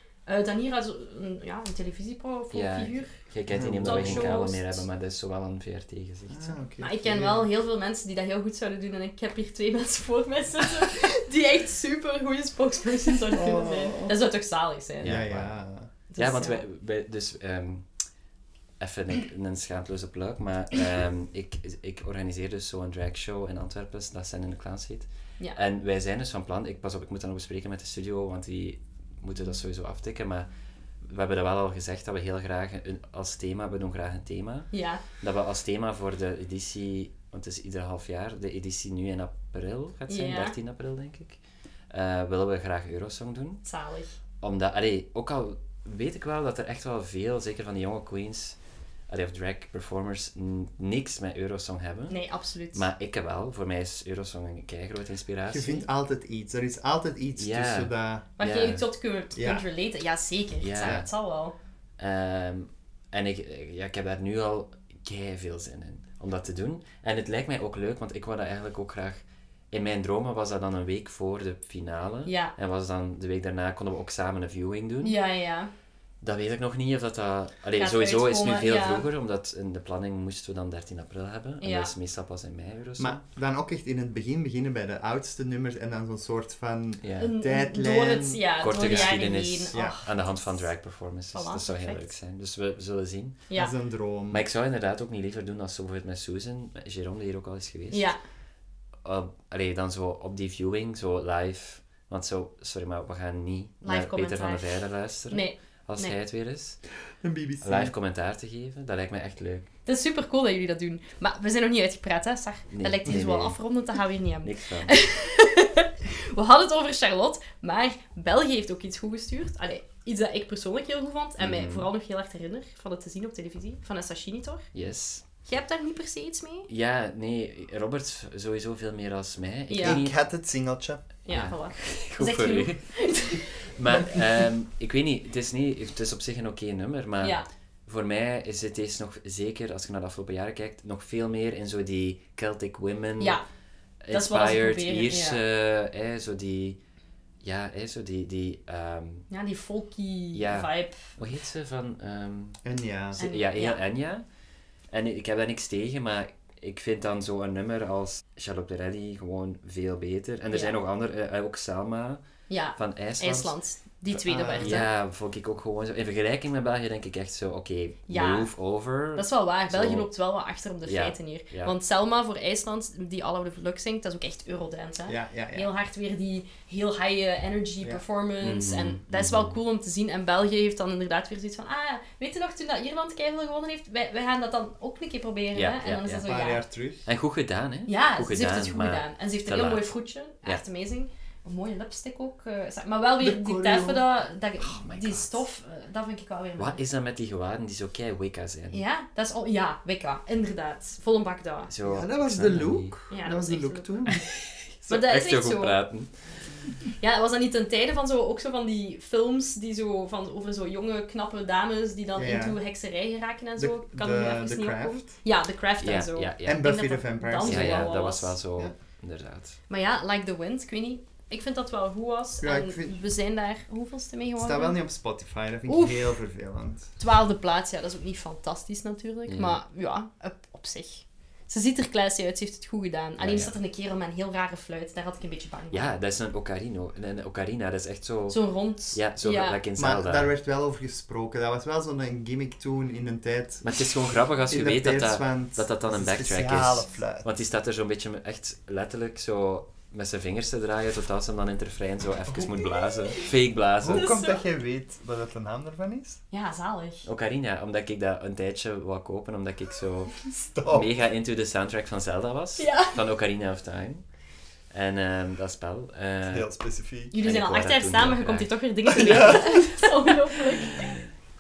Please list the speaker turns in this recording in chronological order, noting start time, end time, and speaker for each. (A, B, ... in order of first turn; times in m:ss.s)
0:00.3-0:03.1 A
0:02.5-0:06.6 B
0:03.5-0:04.3 C
0:03.8-0:04.8 A
0:06.3-0:07.5 C
0:06.8-0:15.2 A
0:13.3-0:14.2 C
0:15.0-0:15.5 B
0:15.0-0:15.9 C
0:16.1-0:16.6 A
0:16.2-0:17.9 B
0:18.8-0:30.5 B
0:31.0-0:41.4 B
0:34.7-0:35.0 A
0:40.1-0:40.5 A
0:41.9-0:43.6 B
0:43.6-0:44.2 A
0:44.4-0:48.6 B
0:49.1-0:52.2 B
0:52.1-0:52.8 A
0:52.7-0:55.9 B
0:55.5-0:58.3 C
0:57.4-0:58.8 B
0:58.4-1:01.5 A
0:59.3-0:59.6 C
1:00.6-1:01.1 B
1:02.0-1:15.2 B
1:12.2-1:12.5 A
1:15.0-1:15.7 A
1:16.2-1:23.2 B
1:17.8-1:19.1 A
1:21.6-1:21.9 A
1:23.0-1:29.2 C
1:27.0-1:27.3 B
1:27.2-1:30.2 A
1:28.6-1:33.4 B
1:29.7-1:30.0 C
1:31.3-1:32.1 A
1:33.5-1:34.4 C
1:34.3-1:38.1 B
1:37.9-1:38.2 A
1:39.0-1:46.8 B
1:43.8-1:44.7 A
1:45.3-1:46.1 A
1:47.2-1:47.9 C
1:47.6-1:49.7 B
1:49.8-2:04.7 A
1:52.7-1:53.6 B
1:54.4-1:54.9 B
2:01.4-2:01.9 B
2:04.7-2:05.2 B
2:05.4-2:06.7 A
2:06.7-2:10.2 B
2:09.7-2:10.0 A
2:09.8-2:11.0 C
2:11.2-2:13.4 A
2:11.3-2:12.8 B
2:13.8-2:23.4 B
2:13.9-2:14.2 C
2:23.2-2:23.4 A
2:24.0-2:26.8 B
2:24.1-2:25.4 A
2:27.4-2:29.2 B
2:29.3-2:31.2 A
2:30.3-2:32.6 B
2:32.6-2:33.2 C
2:33.2-2:34.2 B
2:33.2-2:33.8 A
2:34.9-2:42.2 B
2:40.5-2:40.8 A
2:42.5-2:44.9 A
2:42.8-2:43.6 B
2:44.1-2:50.1 B
2:44.3-2:44.8 C
2:48.1-2:48.5 A
2:49.1-3:06.6 A
2:50.8-2:51.7 B
2:55.1-2:55.7 C
2:58.4-2:59.6 B
3:05.5-3:06.3 B
3:06.2-3:07.0 C
3:07.0-3:09.9 B
3:07.9-3:16.8 A
3:13.2-3:14.0 C
3:14.6-3:15.4 B
3:16.6-3:18.8 B
3:18.7-3:21.7 A
3:21.7-3:22.9 B
3:21.8-3:24.3 C
3:23.1-3:23.9 A
3:24.1-3:26.1 B
3:24.9-3:25.8 A
3:27.0-3:38.3 A
3:32.2-3:32.6 C
3:33.6-3:35.1 C
3:35.8-3:36.7 B
3:36.4-3:37.9 C
3:37.4-3:39.6 B
3:39.7-3:44.8 A
3:42.4-3:43.0 C
3:44.4-3:46.9 C
3:45.7-3:46.1 A
3:47.0-3:55.9 A
3:49.3-3:49.6 B
3:53.2-3:53.5 B
3:55.7-4:00.3 B
3:58.3-3:59.6 A
3:59.8-4:03.7 C
4:03.6-4:14.1 B
4:04.5-4:07.2 C
4:13.8-4:16.2 C
4:13.9-4:14.4 A
4:16.3-4:17.1 A
4:17.0-4:24.0 B
4:20.5-4:20.9 C
4:22.6-4:23.0 A
4:24.7-4:26.5 B
4:26.3-4:27.2 C
4:27.1-4:31.0 A
4:27.1-4:29.4 B
4:28.9-4:29.6 C